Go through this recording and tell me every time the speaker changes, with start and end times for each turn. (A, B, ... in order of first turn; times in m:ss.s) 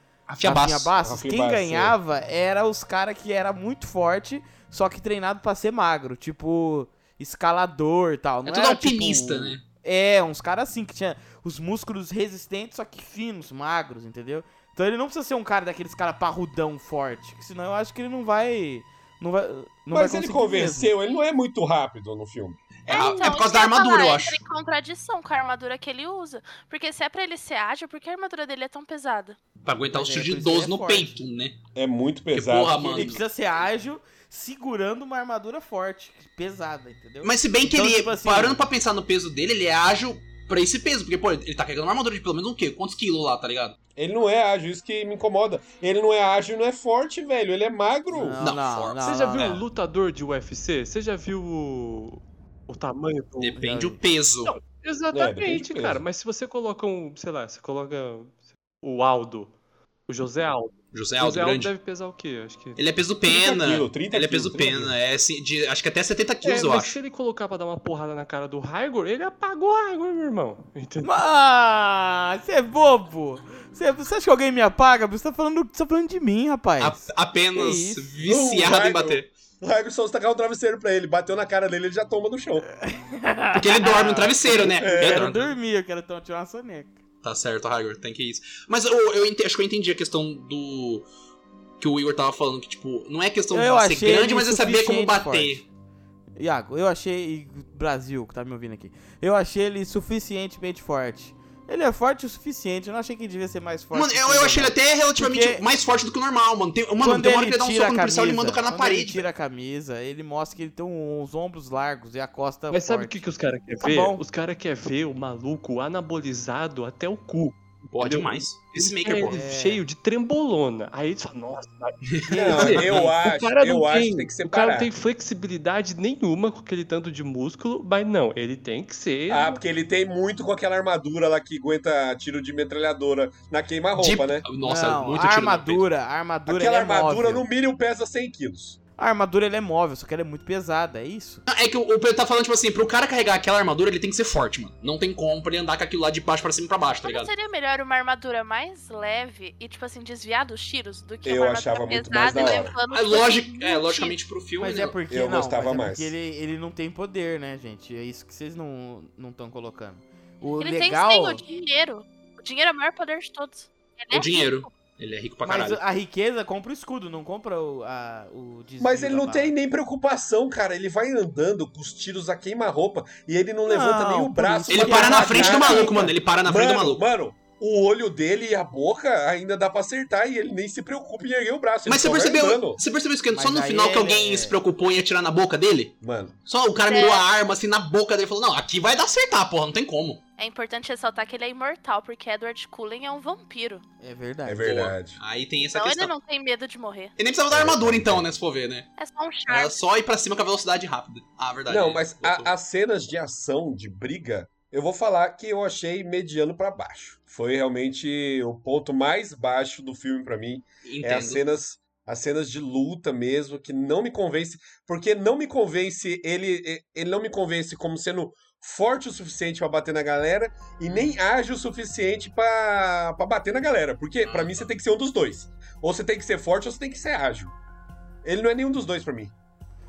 0:00.3-0:00.9 A
0:00.4-0:20.9 B
0:01.0-0:02.0 C
0:08.5-0:09.6 A
0:19.9-0:22.6 C
0:22.9-0:24.4 A
0:22.9-0:29.4 D
0:29.6-0:31.6 A
0:29.9-0:31.2 B
0:31.8-0:33.2 C
0:32.3-0:33.2 A
0:32.8-0:38.6 B
0:37.2-0:43.8 A
0:44.0-0:48.4 C
0:48.1-0:49.6 B
0:48.4-0:49.1 A
0:49.0-0:53.6 E
0:53.4-0:54.6 A
0:53.6-0:54.0 B
0:54.5-0:59.5 E
0:55.1-0:56.0 C
1:00.1-1:02.8 E
1:00.9-1:01.7 A
1:02.8-1:07.0 A
1:03.3-1:05.0 C
1:06.4-1:11.2 E
1:11.0-1:18.1 B
1:16.8-1:19.3 A
1:18.2-1:22.7 C
1:22.8-1:26.9 B
1:23.6-1:25.6 A
1:24.7-1:25.3 C
1:27.2-1:31.1 A
1:31.8-1:35.6 A
1:33.5-1:35.6 B
1:36.4-1:45.6 B
1:43.9-1:49.2 A
1:47.0-1:53.2 B
1:52.7-2:09.6 E
1:53.8-1:54.2 B
1:58.0-1:59.4 A
1:59.3-1:59.8 B
2:02.1-2:03.0 A
2:02.3-2:04.9 C
2:09.3-2:14.5 C
2:14.0-2:15.8 A
2:14.6-2:17.4 B
2:16.5-2:18.8 C
2:19.0-2:21.4 B
2:21.5-2:27.3 A
2:27.0-2:34.2 D
2:31.2-2:32.8 C
2:32.3-2:34.9 A
2:34.6-2:41.4 B
2:35.1-2:36.1 C
2:40.6-2:44.7 D
2:44.1-2:45.8 A
2:45.4-2:49.5 B
2:48.8-3:02.8 C
2:53.7-2:56.0 B
2:54.7-2:57.0 A
3:01.9-3:06.0 A
3:03.3-3:04.6 B
3:06.0-3:06.4 C
3:06.5-3:10.2 A
3:06.8-3:07.2 D
3:10.4-3:13.8 D
3:14.0-3:14.7 B
3:14.5-3:15.2 C
3:14.6-3:16.1 A
3:15.7-3:17.1 D
3:17.2-3:18.9 A
3:17.5-3:18.3 C
3:19.0-3:19.8 D
3:19.5-3:22.5 A
3:21.7-3:47.5 C
3:30.9-3:31.4 A
3:44.2-3:44.7 A
3:48.2-3:49.3 C